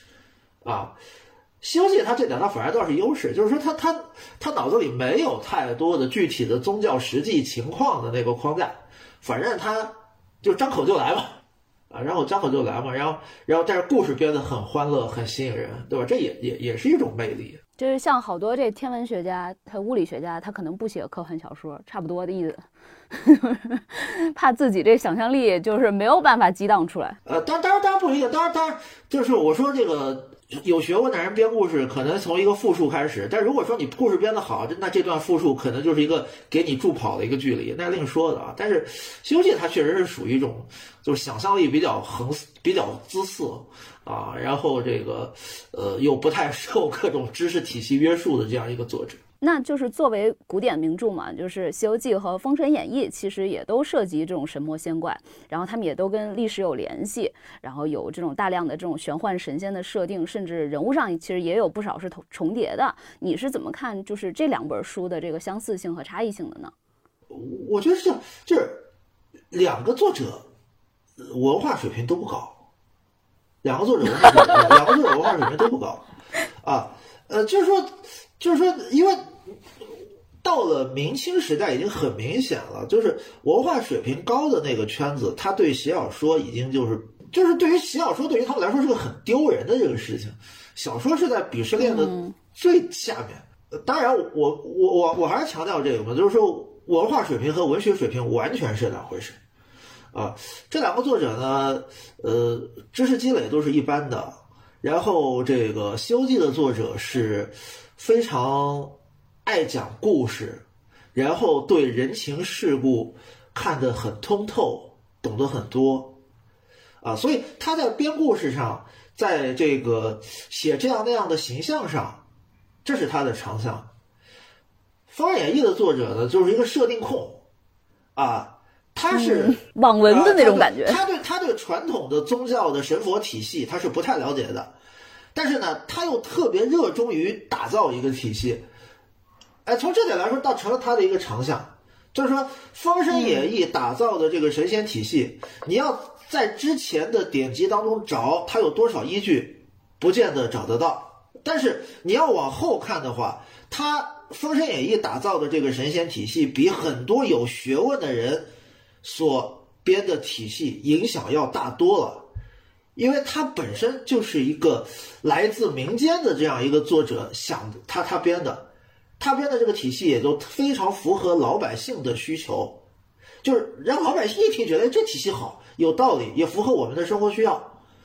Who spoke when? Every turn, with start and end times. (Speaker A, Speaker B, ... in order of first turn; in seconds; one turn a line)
Speaker A: 0.6-1.0
Speaker A: 1.6-11.4
Speaker A: 11.9-17.6
Speaker B: 17.8-27.2
Speaker A: 27.2-49.2
Speaker B: 49.4-66.7
Speaker A: 67.3-68.9
Speaker A: 69.5-70.5
Speaker A: 71.2-72.6
Speaker A: 73.6-76.0
Speaker A: 76.6-79.3
Speaker A: 80.4-99.4
Speaker B: 91.8-92.4
Speaker A: 100.1-116.2
Speaker A: 117.0-122.2
Speaker A: 122.8-123.9
Speaker A: 125.1-127.4
Speaker A: 128.2-134.7
Speaker B: 129.1-131.0
Speaker A: 135.3-138.7
Speaker A: 139.7-158.5
Speaker B: 143.1-143.4
Speaker A: 159.0-162.3
Speaker A: 163.0-172.8
Speaker A: 173.4-177.8